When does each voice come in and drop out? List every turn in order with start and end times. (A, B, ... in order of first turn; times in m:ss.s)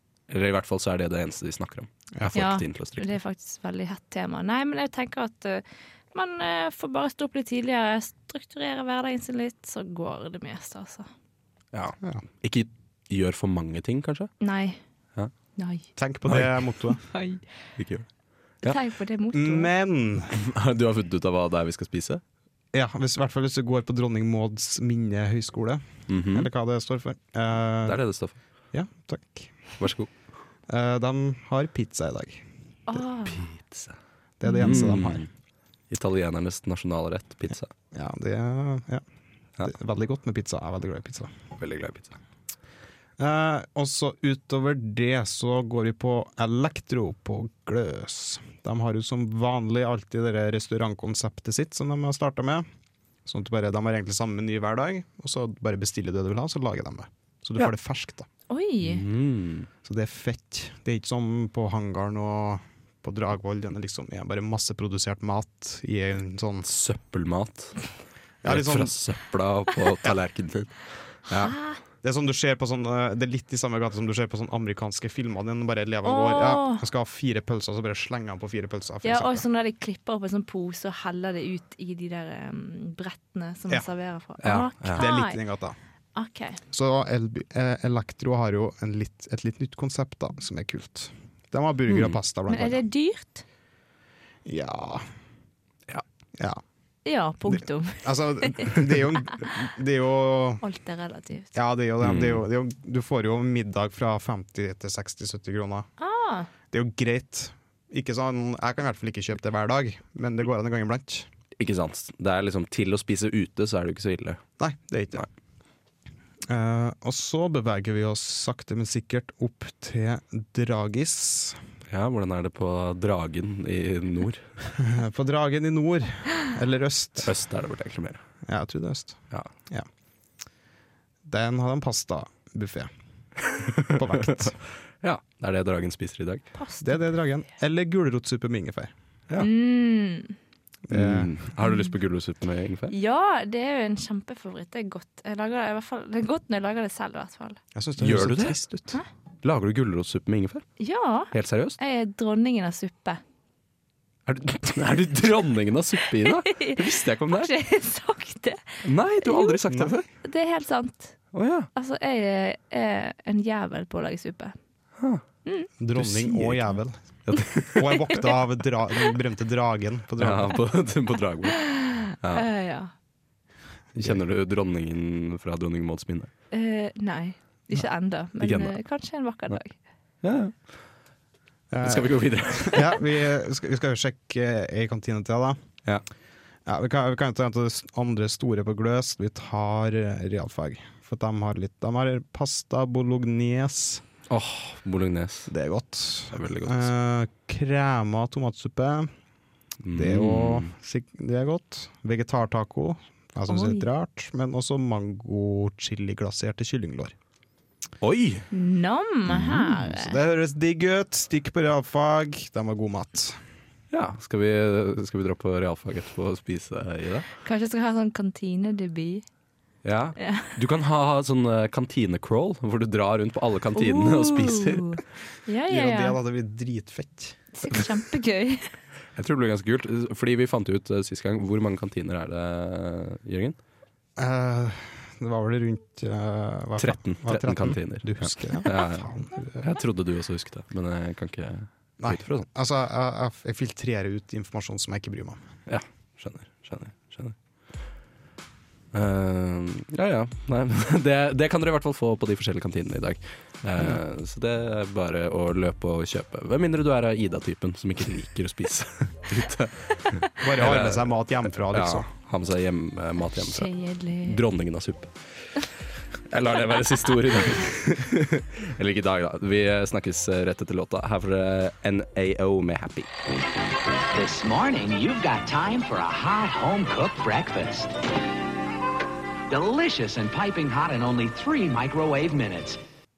0:00.3-0:03.1 A
0:02.3-0:11.1 B
0:11.7-0:14.3 A
0:14.4-0:14.8 B
0:15.6-0:15.8 B
0:16.0-0:17.0 C
0:16.3-0:16.5 A
0:17.1-0:17.4 B
0:17.8-0:18.0 A
0:18.6-0:19.7 B
0:19.3-0:20.3 C
0:20.3-0:22.2 A
0:22.7-0:28.0 C
0:26.1-0:26.5 A
0:27.8-0:28.4 A
0:28.7-0:29.7 C
0:29.8-0:30.1 A
0:30.7-0:32.4 C
0:32.9-0:33.4 B
0:33.2-0:33.9 A
0:34.4-0:35.2 C
0:34.4-0:34.8 B
0:34.6-0:35.3 A
0:35.9-0:37.7 A
0:37.9-0:39.0 C
0:39.6-0:41.3 C
0:41.6-0:42.2 A
0:43.2-0:52.6 C
0:53.2-0:58.3 C
0:58.5-0:59.0 B
0:58.8-0:59.7 A
0:59.8-1:06.7 C
1:06.6-1:07.9 A
1:08.4-1:08.9 C
1:08.4-1:11.5 A
1:11.3-1:11.8 B
1:12.0-1:19.4 C
1:16.0-1:16.8 B
1:19.0-1:25.4 B
1:24.4-1:25.0 A
1:24.9-1:25.8 C
1:26.1-1:26.6 B
1:26.7-1:32.8 C
1:31.9-1:32.2 A
1:32.5-1:33.4 B
1:34.4-1:35.1 C
1:36.4-1:36.6 C
1:37.0-1:39.5 B
1:37.5-1:40.6 C
1:40.6-1:41.5 B
1:41.5-1:45.9 C
1:42.0-1:42.4 A
1:46.0-1:46.5 B
1:46.7-1:51.3 C
1:51.6-1:54.4 A
1:54.6-1:55.3 C
1:56.5-2:01.6 C
2:01.9-2:04.5 A
2:04.8-2:07.3 C
2:07.2-2:08.2 A
2:08.4-2:09.9 C
2:11.2-2:12.9 C
2:13.4-2:16.4 A
2:13.8-2:14.5 C
2:16.5-2:17.0 B
2:16.8-2:18.9 C
2:19.4-2:20.4 B
2:20.9-2:21.3 C
2:20.9-2:22.9 A
2:22.9-2:27.6 B
2:27.7-2:29.0 C
2:28.0-2:28.6 A
2:29.4-2:30.6 A
2:30.8-2:33.2 B
2:31.3-2:31.8 A
2:34.2-2:37.5 A
2:36.2-2:39.6 B
2:38.8-2:40.0 A
2:39.7-2:39.9 C
2:40.2-2:41.2 B
2:41.3-2:41.7 A
2:41.7-2:44.5 B
2:45.0-2:45.2 A
2:45.8-2:47.0 C
2:46.0-2:46.6 A
2:47.2-2:48.0 A
2:47.7-2:50.6 C
2:50.2-2:52.4 A
2:51.6-2:52.9 B
2:53.9-2:56.3 A
2:56.5-2:59.8 B
2:58.4-2:58.7 A
3:00.2-3:00.7 A
3:01.7-3:05.6 C
3:01.8-3:03.0 A
3:06.6-3:14.0 C
3:14.3-3:15.5 A
3:15.5-3:19.1 C
3:16.3-3:16.9 A
3:19.8-3:20.7 A
3:19.9-3:27.1 C
3:23.5-3:23.9 B
3:28.0-3:28.4 A
3:28.5-3:30.2 B
3:29.4-3:29.8 A
3:30.0-3:33.4 C
3:33.9-3:37.3 A
3:37.4-3:39.2 B
3:39.8-3:45.0 A
3:40.2-3:40.5 B
3:43.8-3:46.2 B
3:45.7-3:47.8 C
3:47.5-3:48.7 B
3:49.2-3:53.6 A
3:54.2-3:59.6 C
3:56.8-4:02.4 A
4:02.0-4:05.4 C
4:05.7-4:07.4 A
4:08.9-4:25.1 A
4:20.4-4:22.1 C
4:23.4-4:24.4 B
4:26.3-4:33.1 A
4:34.2-4:37.9 D
4:39.5-4:42.8 D